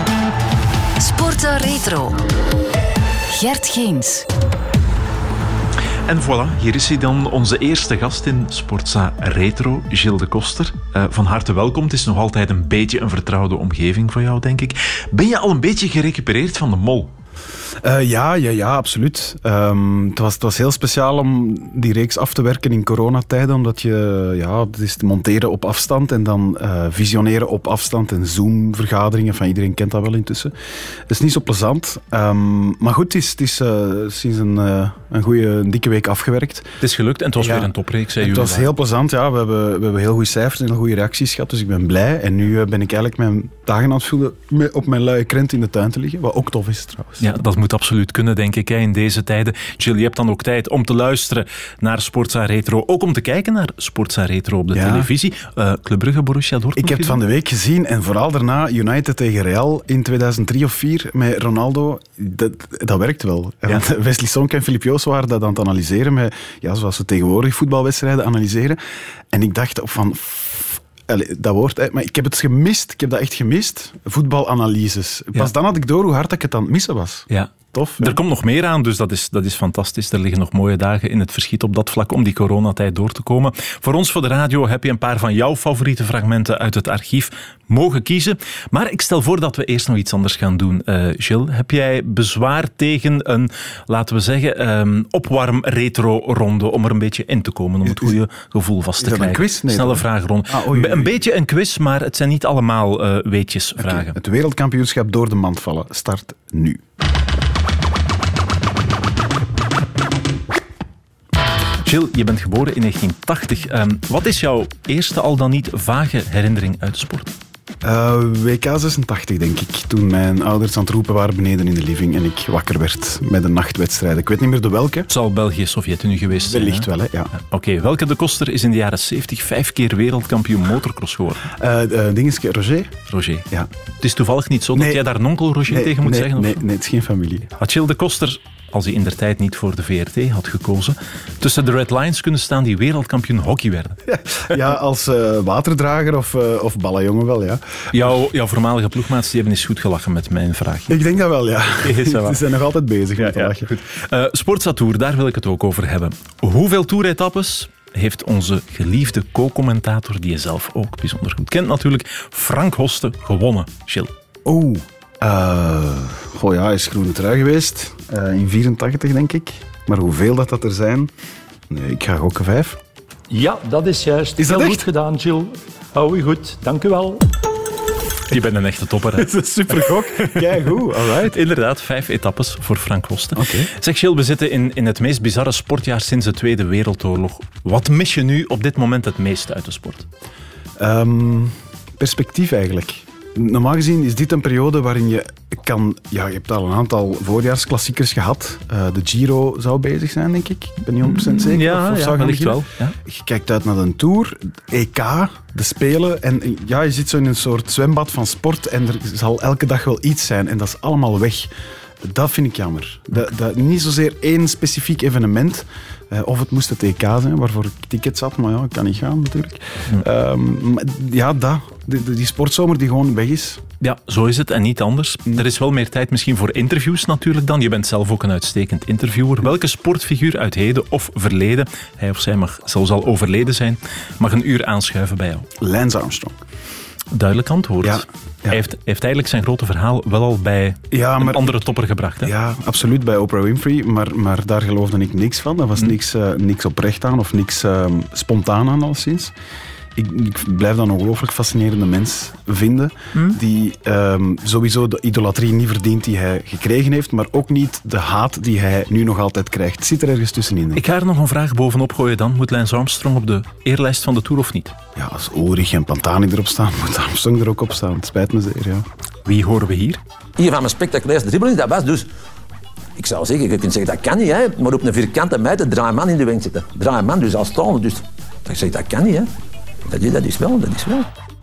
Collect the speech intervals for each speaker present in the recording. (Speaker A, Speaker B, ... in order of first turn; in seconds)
Speaker A: 1.0-2.2, 3.4-4.2
Speaker B: 6.1-17.1, 36.8-38.7, 47.2-57.2, 77.3-104.2, 111.8-117.3, 125.1-131.4, 133.1-133.5, 134.0-136.6, 137.6-144.0, 147.9-150.9, 151.8-152.4, 153.2-164.1, 178.3-179.9, 181.3-190.1, 201.0-202.9, 223.8-235.5, 237.1-242.3, 260.8-264.8, 269.2-270.0
Speaker C: 17.8-30.5, 31.1-36.7, 37.4-47.2, 54.7-55.1, 56.8-68.8, 69.3-78.2, 97.8-98.1, 99.0-101.2, 103.8-106.8, 117.8-125.1, 126.4-127.3, 131.6-132.9, 134.7-135.0, 135.7-137.5, 144.1-147.6, 150.9-153.7, 164.4-171.1, 171.7-172.8, 174.4-174.8, 179.2-181.4, 183.3-183.7, 190.8-211.5, 212.0-223.6, 235.6-236.4, 237.8-238.6, 240.9-241.6, 242.2-249.3, 249.9-260.8, 264.9-268.8
Speaker D: 173.3-177.2
Speaker E: 270.4-272.1, 273.0-279.3, 279.9-281.1